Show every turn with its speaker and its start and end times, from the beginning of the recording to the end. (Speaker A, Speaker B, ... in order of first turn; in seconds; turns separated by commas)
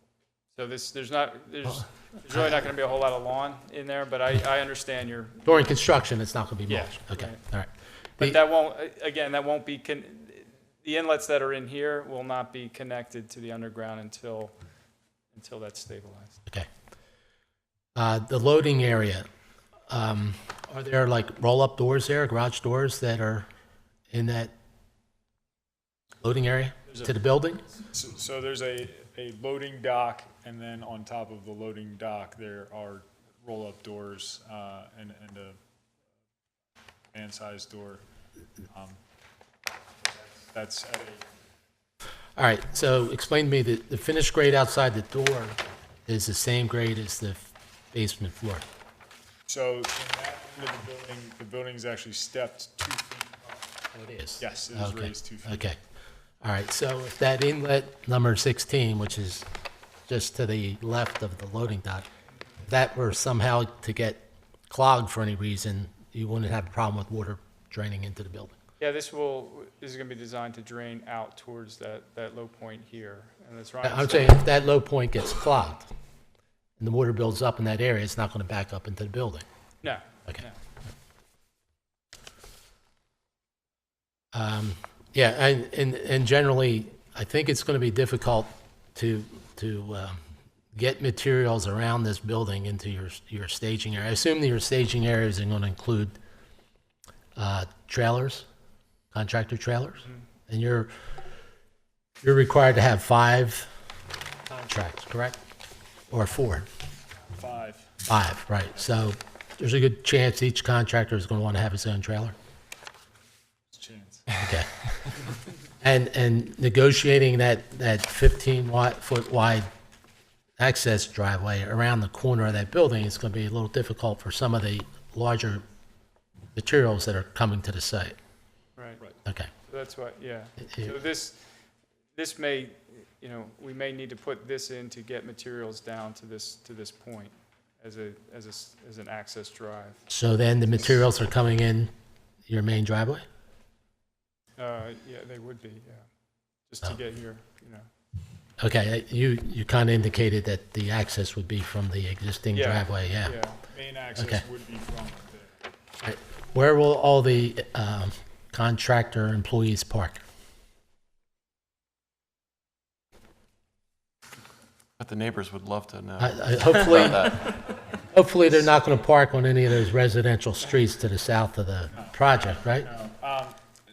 Speaker A: 0.5-5.7, Speaker B: 1.6-2.7, Speaker B: 5.4-8.4, Speaker A: 6.7-7.4, Speaker A: 8.2-14.5, Speaker A: 15.3-16.4, Speaker B: 17.9-19.3, Speaker B: 19.9-23.5, Speaker B: 24.1-24.5, Speaker B: 26.2-27.6, Speaker C: 27.9-35.6, Speaker C: 37.1-38.0, Speaker C: 38.7-39.0, Speaker C: 40.4-41.2, Speaker B: 42.4-48.6, Speaker C: 49.5-53.7, Speaker B: 53.9-55.8, Speaker C: 54.4-55.7, Speaker B: 56.4-59.5, Speaker B: 60.1-62.1, Speaker B: 62.6-68.5, Speaker A: 68.8-74.4, Speaker B: 73.8-75.9, Speaker B: 76.8-79.4, Speaker A: 79.8-80.6, Speaker B: 84.3-90.2, Speaker B: 90.7-96.2, Speaker B: 97.3-98.5, Speaker B: 99.1-100.9, Speaker B: 102.2-103.7, Speaker B: 104.5-105.4, Speaker B: 106.1-106.7, Speaker C: 107.3-107.9, Speaker B: 108.1-112.3, Speaker C: 113.7-114.2, Speaker B: 114.4-114.7, Speaker B: 115.8-119.7, Speaker B: 120.6-125.6, Speaker B: 126.5-128.1, Speaker A: 128.8-129.0, Speaker A: 129.7-131.4, Speaker A: 132.1-140.1, Speaker B: 140.1-141.9, Speaker B: 142.4-143.2, Speaker A: 144.6-146.1, Speaker A: 146.7-147.9, Speaker B: 148.6-153.4, Speaker A: 152.5-153.6, Speaker C: 153.7-155.6, Speaker B: 154.1-154.4, Speaker B: 156.0-160.2, Speaker D: 165.0-167.6, Speaker B: 166.2-167.6, Speaker B: 168.1-172.9, Speaker C: 171.9-173.6